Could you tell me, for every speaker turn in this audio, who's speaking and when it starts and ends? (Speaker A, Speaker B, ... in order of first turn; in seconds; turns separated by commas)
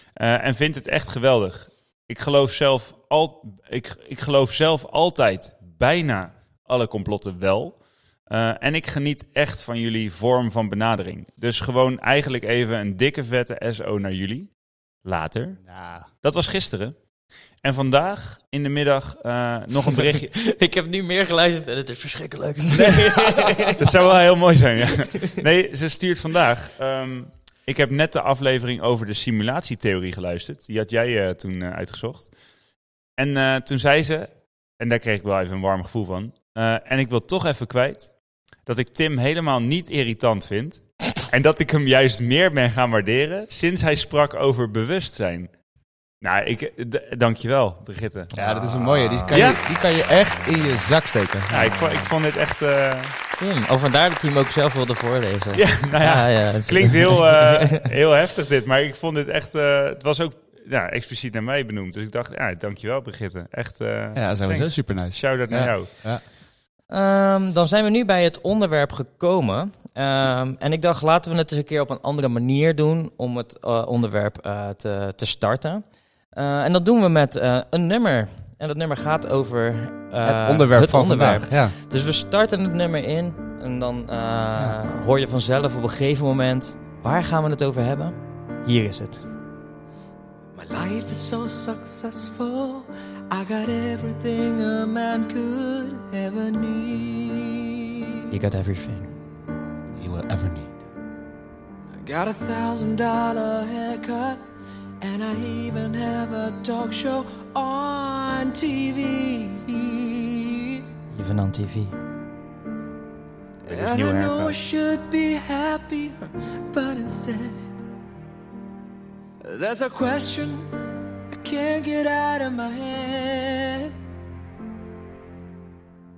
Speaker A: 0.1-14.5, Speaker A: 15.0-15.6, Speaker B: 15.6-16.1, Speaker A: 16.2-17.0, Speaker A: 17.6-20.3, Speaker C: 19.9-23.8, Speaker A: 22.7-32.3, Speaker A: 33.2-38.1, Speaker A: 38.6-45.5, Speaker A: 46.2-49.6, Speaker B: 48.3-51.9, Speaker C: 48.4-48.7, Speaker C: 49.2-50.5, Speaker A: 51.5-53.1, Speaker C: 53.4-57.8, Speaker A: 55.5-65.9, Speaker B: 64.1-66.2, Speaker C: 66.9-89.2, Speaker B: 80.2-81.7, Speaker D: 90.5-97.9, Speaker C: 98.3-99.1, Speaker B: 99.9-100.7, Speaker D: 102.0-104.5, Speaker D: 105.0-110.9, Speaker C: 111.1-112.0, Speaker D: 113.6-117.7, Speaker A: 113.7-114.6, Speaker D: 119.4-120.7, Speaker D: 121.3-124.0